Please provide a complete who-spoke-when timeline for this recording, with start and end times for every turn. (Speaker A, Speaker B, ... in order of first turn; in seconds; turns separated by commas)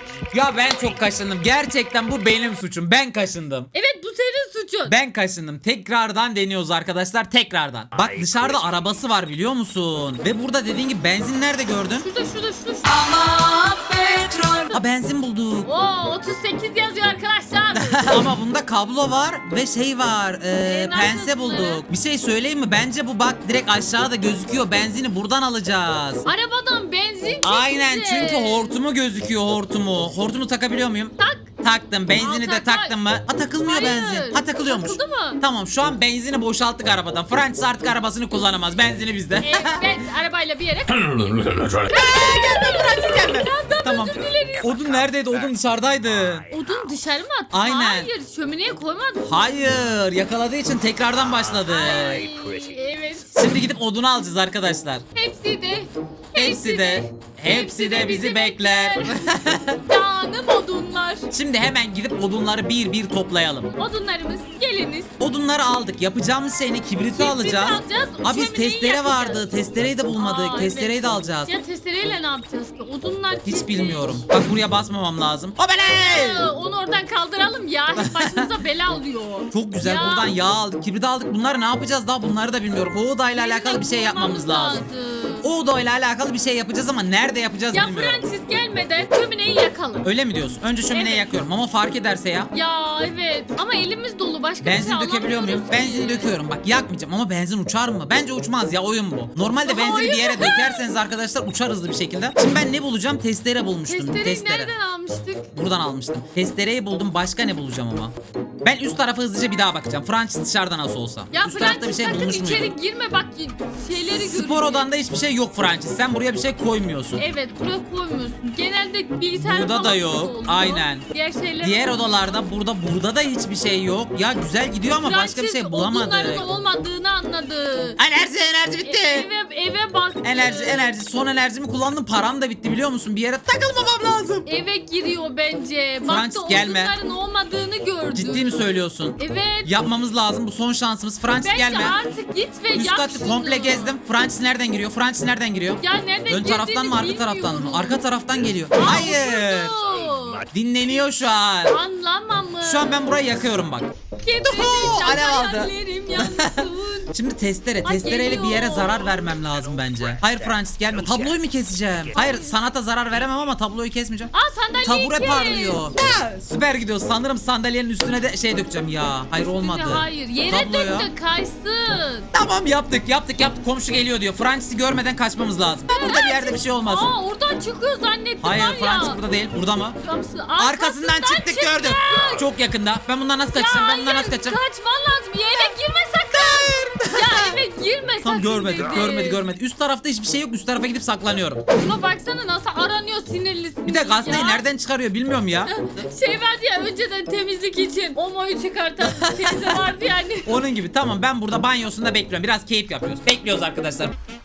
Speaker A: 0.3-3.7, Speaker B: 3.7-5.0, Speaker A: 4.8-12.1, Speaker B: 12.0-14.8, Speaker A: 14.7-15.7, Speaker B: 15.6-18.2, Speaker A: 17.7-26.2, Speaker B: 20.6-21.8, Speaker B: 26.2-28.7, Speaker A: 27.4-39.9, Speaker B: 31.2-31.5, Speaker B: 32.1-33.0, Speaker B: 33.6-35.4, Speaker B: 39.4-44.8, Speaker A: 41.9-46.5, Speaker B: 46.4-49.4, Speaker A: 47.5-48.1, Speaker A: 49.2-52.3, Speaker B: 51.6-53.4, Speaker A: 53.3-55.0, Speaker B: 55.1-61.3, Speaker A: 56.4-59.8, Speaker A: 61.3-63.7, Speaker B: 63.8-65.1, Speaker A: 65.2-71.5, Speaker B: 67.1-69.5, Speaker B: 70.1-74.3, Speaker A: 73.4-76.5, Speaker B: 75.7-80.4, Speaker A: 78.0-78.5, Speaker A: 79.5-84.8, Speaker B: 83.3-85.5, Speaker A: 85.4-88.2, Speaker B: 87.7-90.1, Speaker A: 90.0-92.5, Speaker B: 90.9-91.3, Speaker B: 92.5-96.4, Speaker A: 94.6-104.7, Speaker B: 99.6-100.9, Speaker B: 103.8-105.5, Speaker A: 105.5-108.1, Speaker A: 108.6-112.7, Speaker B: 111.3-114.9, Speaker A: 114.1-117.2, Speaker B: 117.2-122.4, Speaker A: 119.4-121.0, Speaker A: 121.6-126.5, Speaker B: 125.0-128.1, Speaker A: 128.0-129.3, Speaker B: 128.8-130.9, Speaker A: 130.2-134.5, Speaker B: 134.4-139.8, Speaker A: 136.1-136.9, Speaker A: 138.1-142.0, Speaker B: 141.4-144.0, Speaker A: 142.7-149.8, Speaker B: 145.8-148.0, Speaker B: 148.7-150.5, Speaker A: 150.4-151.8, Speaker B: 151.6-153.2, Speaker A: 152.6-153.9, Speaker B: 154.2-157.1, Speaker A: 154.4-164.3, Speaker B: 157.8-159.4, Speaker B: 162.1-162.6, Speaker B: 164.3-166.0, Speaker A: 164.8-171.1, Speaker B: 169.4-172.3, Speaker A: 172.3-177.1, Speaker B: 175.8-179.2, Speaker A: 178.4-180.0, Speaker B: 180.0-182.5, Speaker A: 180.6-184.6, Speaker B: 183.5-189.4, Speaker A: 186.3-187.6, Speaker A: 188.2-191.6, Speaker B: 191.7-194.7, Speaker A: 193.8-195.7, Speaker B: 195.7-200.6, Speaker A: 199.0-199.9, Speaker A: 200.4-204.1